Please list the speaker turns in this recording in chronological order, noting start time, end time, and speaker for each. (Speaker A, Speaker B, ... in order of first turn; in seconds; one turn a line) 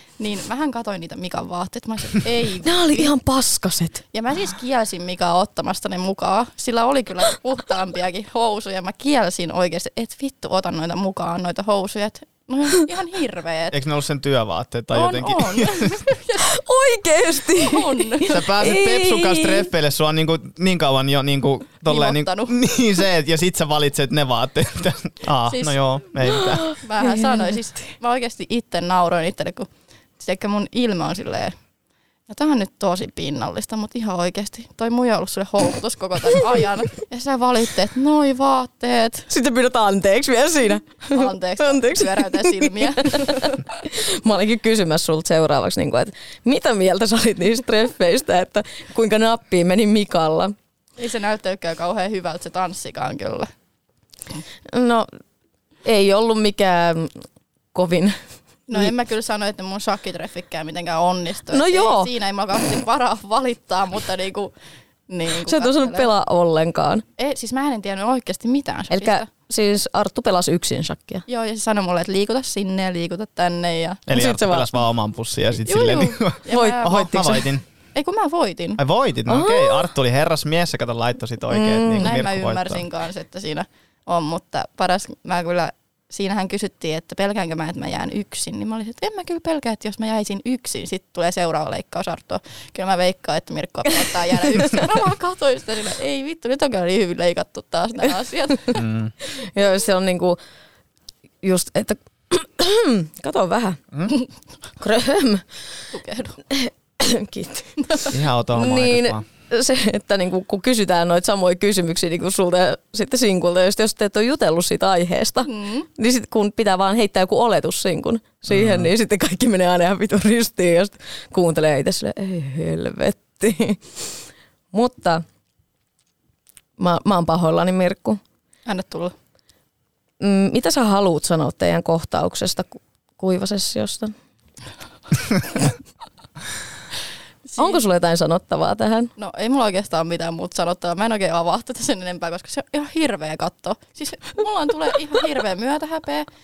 Speaker A: 0.2-3.1
Speaker B: 2.6-4.0
Speaker A: 4.1-13.8
Speaker C: 13.7-16.1
Speaker A: 14.9-16.5
Speaker B: 16.4-19.7
Speaker A: 17.6-18.4
Speaker C: 18.3-26.7
Speaker A: 21.9-22.5
Speaker A: 25.5-25.8
Speaker B: 26.3-27.6
Speaker A: 26.8-31.6
Speaker A: 32.3-39.3
Speaker B: 39.3-50.5
Speaker A: 41.1-43.6
Speaker A: 51.0-53.5
Speaker B: 54.7-55.1
Speaker B: 55.8-57.2
Speaker B: 57.7-58.2
Speaker A: 58.7-64.5
Speaker B: 61.5-62.1
Speaker A: 65.1-66.1
Speaker B: 65.4-67.0
Speaker A: 67.2-69.3
Speaker B: 68.9-71.2
Speaker A: 71.3-74.1
Speaker C: 74.1-77.6
Speaker B: 74.1-74.8
Speaker A: 75.7-77.3
Speaker B: 76.5-77.5
Speaker A: 77.9-78.8
Speaker C: 78.8-82.8
Speaker B: 79.3-79.8
Speaker B: 81.5-82.2
Speaker A: 82.0-98.8
Speaker B: 94.6-94.9
Speaker C: 98.7-99.1
Speaker B: 99.3-100.4
Speaker B: 101.4-103.8
Speaker B: 104.8-105.5
Speaker A: 105.9-106.4
Speaker B: 106.5-108.0
Speaker A: 107.8-108.1
Speaker C: 108.1-109.2
Speaker B: 108.5-124.1
Speaker A: 115.5-115.9
Speaker C: 118.5-118.9
Speaker B: 124.7-125.2
Speaker B: 126.8-128.2
Speaker A: 128.7-129.1
Speaker B: 130.2-134.1
Speaker A: 137.5-137.8
Speaker B: 137.6-139.1
Speaker A: 139.2-146.2